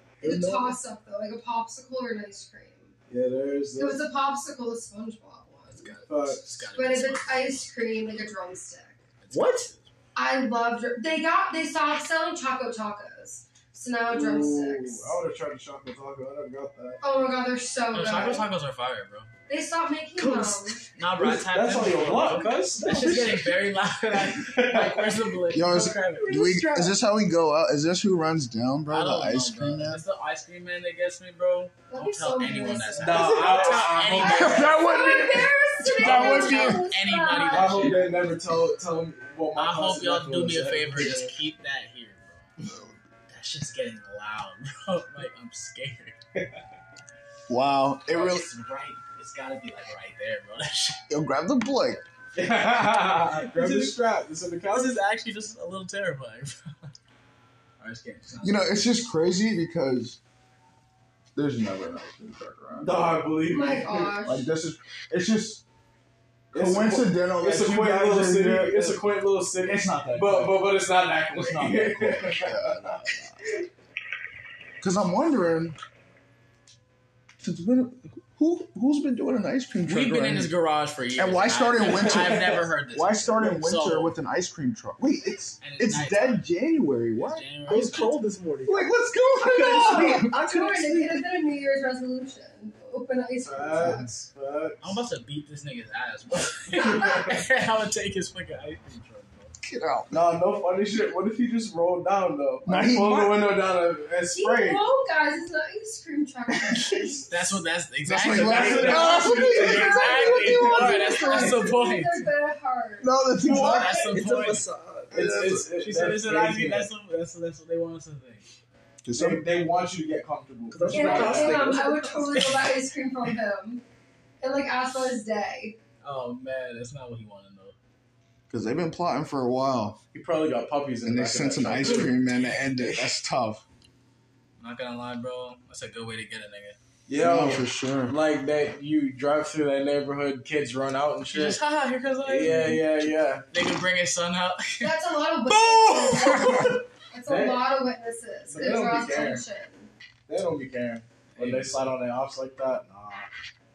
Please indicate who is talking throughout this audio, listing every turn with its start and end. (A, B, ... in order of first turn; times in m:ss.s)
0:00.2-0:00.8 A
0:00.2-0:02.9 B
0:03.1-0:04.0 C
0:03.8-0:06.0 B
0:05.7-0:07.7 D
0:06.1-0:06.6 C
0:06.7-0:09.0 B
0:09.2-0:09.9 D
0:09.3-0:09.7 A
0:10.2-0:15.2 B
0:14.1-0:17.0 C
0:17.0-0:18.5 B
0:17.9-0:19.3 D
0:19.5-0:20.8 B
0:20.2-0:20.9 A
0:21.0-0:26.2 D
0:21.2-0:23.6 C
0:24.2-0:26.3 C
0:25.5-0:30.0 E
0:26.4-0:26.9 A
0:28.9-0:34.8 D
0:31.9-0:38.2 B
0:33.0-0:34.7 C
0:34.2-0:36.9 E
0:35.9-0:38.1 D
0:37.5-0:41.3 C
0:39.6-0:42.5 D
0:42.6-0:43.0 E
0:43.3-0:46.2 D
0:47.5-0:48.5 E
0:48.1-0:51.0 D
0:51.1-0:52.0 E
0:52.3-0:55.0 C
0:53.0-0:54.0 D
0:54.7-0:56.9 D
0:57.8-0:58.7 D
0:58.4-1:00.2 E
1:01.4-1:03.2 E
1:02.8-1:04.2 C
1:03.5-1:04.5 B
1:04.2-1:05.6 E
1:06.5-1:09.0 E
1:06.5-1:12.8 C
1:09.6-1:10.6 E
1:11.4-1:13.1 E
1:14.8-1:15.8 E
1:17.4-1:20.5 E
1:19.8-1:24.2 D
1:21.2-1:27.5 E
1:21.9-1:22.5 C
1:25.6-1:26.5 D
1:27.2-1:28.3 D
1:27.7-1:31.3 A
1:28.7-1:30.4 E
1:30.1-1:34.1 B
1:33.4-1:35.0 C
1:34.8-1:39.6 D
1:36.8-1:37.4 C
1:39.6-1:40.2 E
1:40.1-1:44.9 C
1:42.6-1:43.5 E
1:44.3-1:47.3 B
1:46.8-1:47.3 C
1:47.3-1:52.3 D
1:48.0-1:51.5 E
1:48.2-1:50.1 C
1:48.9-1:53.1 B
1:53.0-1:54.2 E
1:53.4-1:54.7 D
1:53.5-1:53.8 C
1:53.8-1:55.3 A
1:55.1-1:55.7 E
1:55.1-1:56.9 C
1:55.7-1:58.4 D
1:59.0-1:59.4 E
1:59.2-2:01.6 C
2:00.7-2:02.6 A
2:00.9-2:03.8 B
2:02.4-2:02.7 D
2:04.4-2:05.8 B
2:06.0-2:07.8 D
2:08.5-2:10.0 E
2:10.1-2:12.2 C
2:11.0-2:13.6 E
2:11.8-2:13.1 D
2:14.6-2:16.8 D
2:17.1-2:21.6 C
2:17.2-2:18.2 E
2:21.3-2:22.7 D
2:22.2-2:23.4 C
2:22.5-2:22.9 E
2:23.5-2:25.0 D
2:24.8-2:29.9 B
2:25.5-2:26.8 D
2:27.3-2:27.6 C
2:28.5-2:29.4 C
2:30.3-2:33.3 C
2:31.3-2:31.8 D